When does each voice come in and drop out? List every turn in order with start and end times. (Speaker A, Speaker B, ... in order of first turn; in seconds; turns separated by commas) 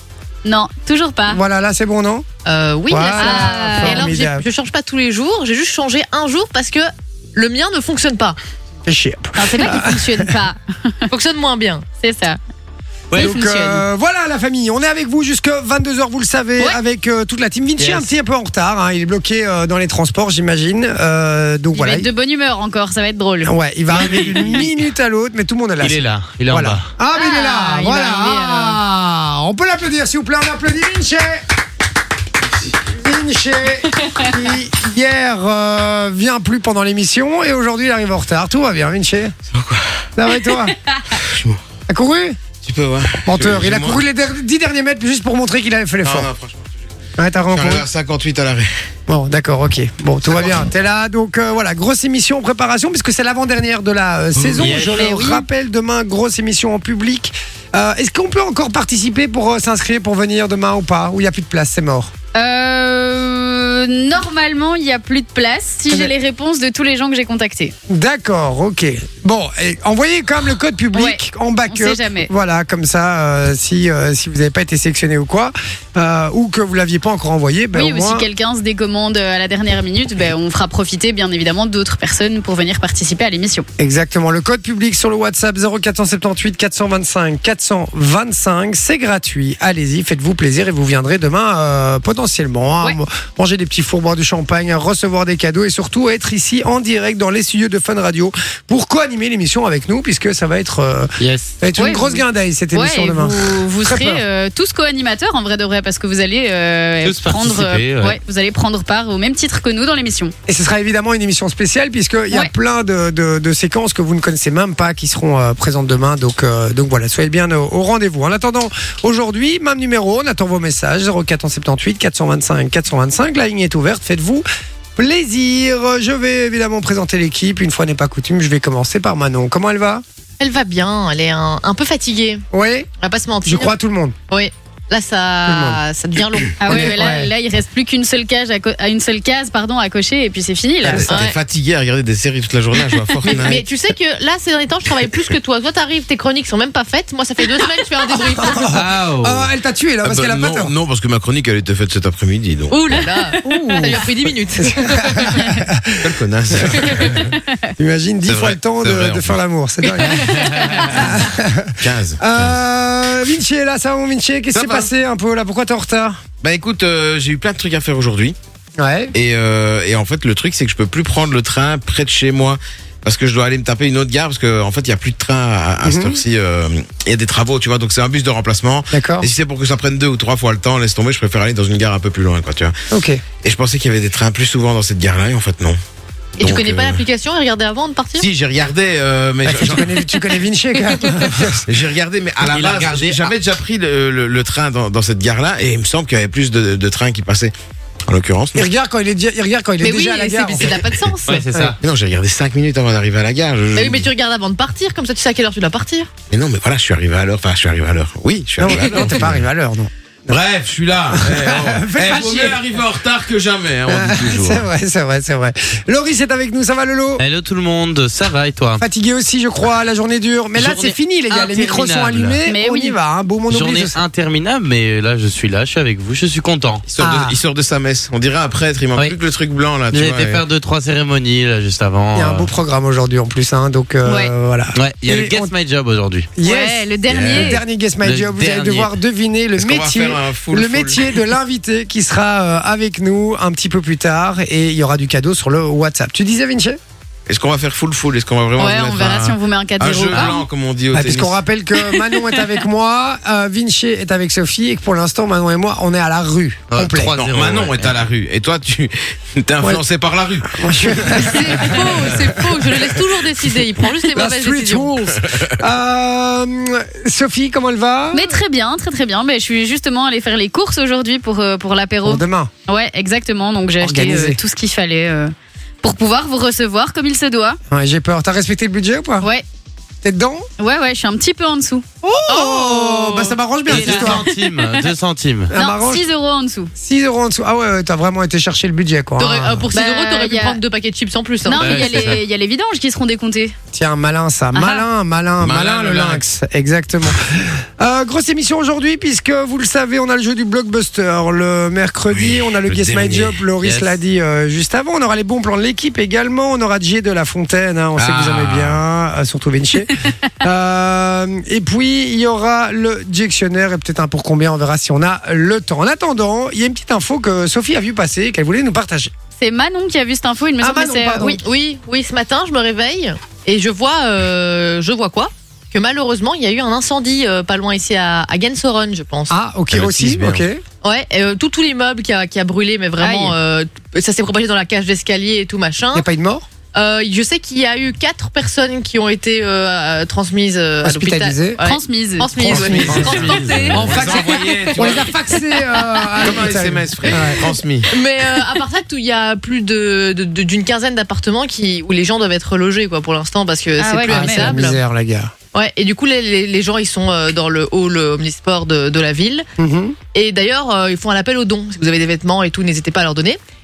Speaker A: 0.5-1.4, Speaker B: 1.3-2.3, Speaker C: 2.5-8.4, Speaker B: 2.9-4.5, Speaker A: 3.2-4.1, Speaker B: 8.9-10.4, Speaker A: 9.4-10.9, Speaker C: 11.1-11.8, Speaker A: 12.0-12.4, Speaker B: 13.2-22.1, Speaker A: 13.2-13.8, Speaker D: 17.8-18.1, Speaker A: 21.7-23.5, Speaker B: 23.4-31.4, Speaker D: 23.9-24.6, Speaker D: 25.8-26.9, Speaker A: 27.1-28.8, Speaker B: 32.9-39.4, Speaker A: 34.0-34.3, Speaker E: 39.5-40.1, Speaker B: 40.2-40.8, Speaker E: 41.1-41.6, Speaker B: 41.9-42.4, Speaker E: 42.6-44.0, Speaker B: 43.2-46.3, Speaker E: 46.0-46.8, Speaker B: 47.2-47.9, Speaker E: 47.5-48.7, Speaker B: 49.1-62.1, Speaker D: 54.4-55.1, Speaker A: 55.0-55.5, Speaker A: 62.4-67.7, Speaker B: 67.9-78.3, Speaker A: 70.9-72.3, Speaker A: 77.7-83.7, Speaker B: 83.8-104.2, Speaker D: 101.2-101.5, Speaker A: 101.8-110.3, Speaker D: 107.0-108.2, Speaker B: 110.5-130.0, Speaker C: 130.4-132.4, Speaker B: 132.5-132.9, Speaker C: 133.0-133.7, Speaker B: 133.4-134.2, Speaker C: 134.3-136.6, Speaker B: 135.5-135.8, Speaker A: 136.6-141.1, Speaker B: 136.7-137.3, Speaker B: 140.8-141.2, Speaker E: 140.9-143.6, Speaker C: 141.1-141.4, Speaker C: 143.3-148.8, Speaker B: 148.3-150.7, Speaker D: 148.7-149.5, Speaker E: 150.0-153.0, Speaker C: 152.7-155.5, Speaker B: 153.4-154.0, Speaker B: 154.6-157.2, Speaker E: 156.0-157.4, Speaker B: 157.8-166.2, Speaker E: 158.2-159.4, Speaker C: 160.0-160.6, Speaker E: 161.8-162.6, Speaker E: 164.5-164.9, Speaker E: 166.4-168.4, Speaker B: 168.8-169.1, Speaker E: 169.1-182.8, Speaker B: 175.8-176.2, Speaker B: 178.9-179.3, Speaker B: 182.9-183.2, Speaker E: 183.4-185.8, Speaker E: 186.4-187.0, Speaker C: 186.4-188.3, Speaker E: 188.2-190.0, Speaker B: 189.4-191.7, Speaker E: 191.6-197.5, Speaker D: 192.4-193.3, Speaker E: 198.1-198.7, Speaker B: 198.6-200.9, Speaker C: 199.8-201.4, Speaker D: 201.2-201.8, Speaker E: 201.8-204.1, Speaker C: 203.7-206.1, Speaker E: 206.3-209.4, Speaker B: 208.6-210.4, Speaker E: 210.3-214.7, Speaker B: 211.2-212.6, Speaker B: 213.9-217.2, Speaker D: 217.2-218.8, Speaker B: 218.8-224.0, Speaker D: 220.6-222.4, Speaker A: 222.5-223.0, Speaker D: 223.5-226.9, Speaker E: 226.9-230.4, Speaker B: 227.0-227.4, Speaker D: 229.9-232.5, Speaker B: 232.2-235.5, Speaker A: 234.1-234.3, Speaker D: 234.8-236.3, Speaker B: 236.4-246.8, Speaker A: 236.4-237.6, Speaker D: 237.1-238.9, Speaker E: 239.6-241.1, Speaker E: 247.3-251.4, Speaker A: 248.6-250.4, Speaker B: 250.9-257.2, Speaker A: 251.8-252.4, Speaker D: 256.7-258.0, Speaker E: 257.1-261.8, Speaker B: 260.5-262.1, Speaker C: 261.1-264.9, Speaker B: 264.1-268.4, Speaker E: 265.2-265.5, Speaker A: 268.1-277.6, Speaker B: 272.0-272.5, Speaker B: 273.8-274.4, Speaker B: 277.7-279.3, Speaker B: 280.0-280.5, Speaker A: 280.6-281.8, Speaker B: 282.0-284.3, Speaker C: 282.3-283.4, Speaker D: 283.7-285.5, Speaker B: 285.5-286.1, Speaker A: 285.5-286.7, Speaker B: 286.8-289.7, Speaker C: 289.2-292.1, Speaker A: 289.7-290.6, Speaker A: 291.4-293.6, Speaker D: 291.5-292.2, Speaker B: 293.7-319.1, Speaker A: 294.5-294.9, Speaker E: 295.4-296.2, Speaker E: 302.1-303.4, Speaker D: 303.6-304.0, Speaker E: 308.0-308.8, Speaker A: 319.4-321.4, Speaker B: 320.6-321.4, Speaker C: 321.4-329.3, Speaker B: 329.3-330.6, Speaker E: 329.7-330.5, Speaker C: 330.8-336.1, Speaker A: 333.0-333.4, Speaker B: 335.9-336.5, Speaker C: 336.7-345.0, Speaker B: 340.8-341.6, Speaker A: 341.6-342.3, Speaker B: 342.4-347.5, Speaker E: 342.4-345.2, Speaker D: 342.8-343.9, Speaker E: 346.2-347.9, Speaker C: 347.9-354.8, Speaker A: 353.8-354.6, Speaker B: 354.1-355.3, Speaker C: 355.5-359.5, Speaker B: 359.6-360.0, Speaker C: 360.1-363.4